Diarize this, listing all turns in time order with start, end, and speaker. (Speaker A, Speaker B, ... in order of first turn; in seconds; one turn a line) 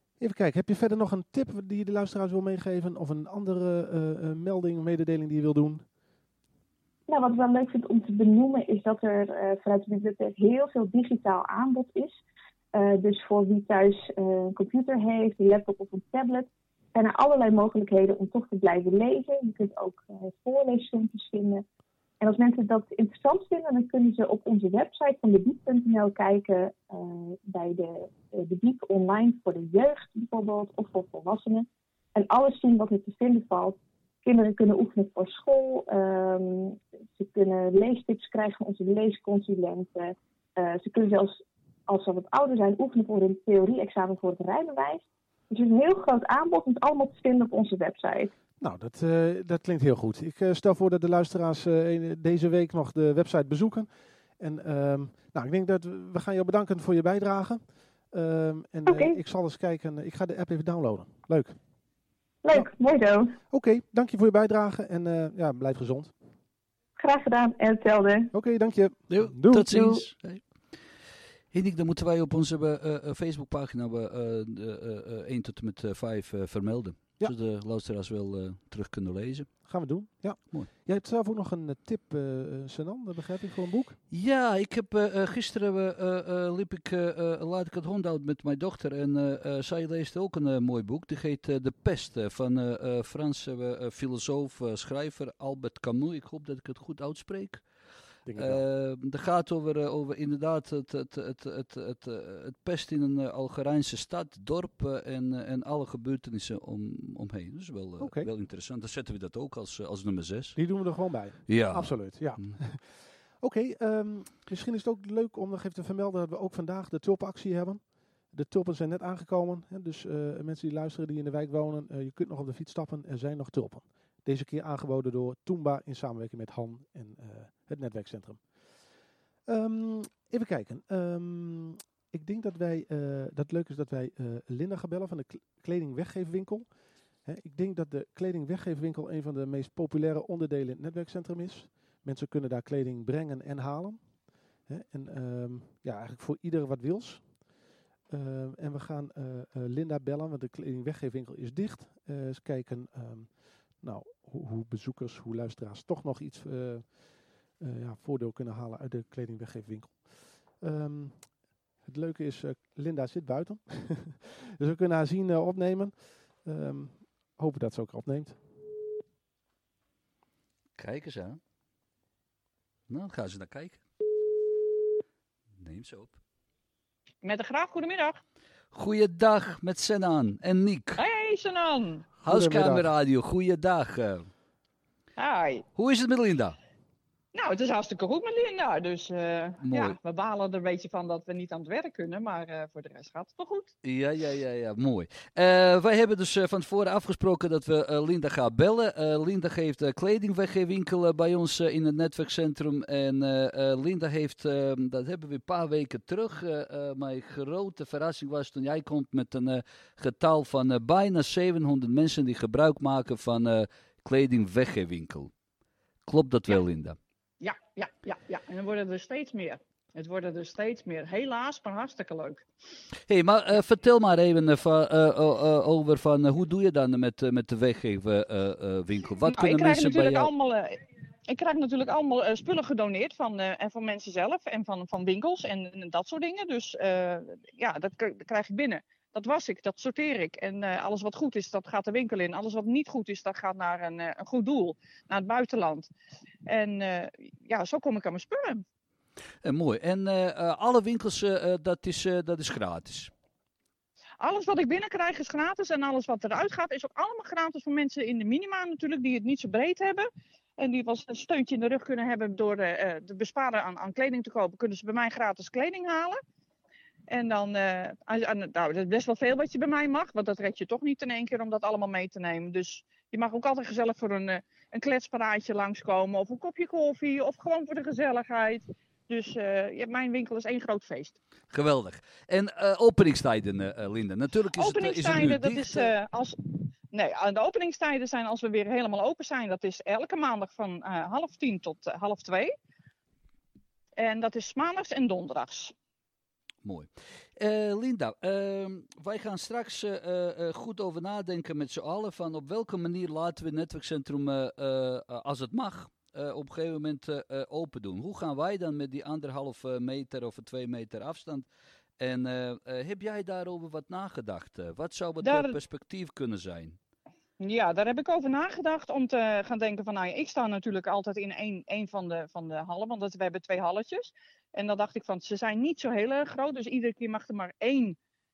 Speaker A: 0.2-5.8
Speaker B: 7.1-12.2
Speaker B: 12.7-21.6
Speaker B: 22.2-48.3
Speaker A: 48.6-61.6
Speaker B: 58.9-59.2
Speaker B: 62.4-63.4
Speaker A: 63.5-66.2
Speaker B: 67.0-68.3
Speaker A: 68.3-69.7
Speaker C: 69.1-70.9
Speaker B: 69.7-70.0
Speaker C: 71.5-79.7
Speaker A: 79.6-84.0
Speaker C: 84.1-97.7
Speaker A: 98.3-98.6
Speaker C: 98.4-110.6
Speaker A: 108.0-108.3
Speaker A: 110.6-128.4
Speaker C: 111.5-112.6
Speaker A: 129.5-136.7
Speaker A: 137.2-144.0
Speaker A: 144.7-147.3
Speaker A: 148.1-161.3
Speaker A: 161.8-168.4
Speaker C: 170.8-171.4
Speaker C: 172.9-173.8
Speaker C: 175.6-176.2
Speaker D: 177.2-178.2
Speaker C: 178.7-181.0
Speaker D: 181.0-182.1
Speaker C: 182.2-184.3
Speaker A: 182.2-182.9
Speaker D: 185.2-185.7
Speaker C: 185.8-186.6
Speaker D: 187.3-193.7
Speaker C: 189.6-190.0
Speaker C: 193.8-215.3
Speaker C: 216.1-217.0
Speaker D: 217.4-222.4
Speaker C: 223.1-230.3
Speaker D: 229.3-245.9
Speaker D: 246.5-248.6
Speaker C: 249.4-253.1
Speaker D: 254.2-266.2
Speaker D: 267.1-281.2
Speaker C: 281.5-285.9
Speaker D: 284.6-292.5
Speaker D: 294.0-295.7
Speaker C: 296.6-311.5
Speaker C: 312.0-316.8
Speaker D: 315.2-315.6
Speaker D: 317.4-328.0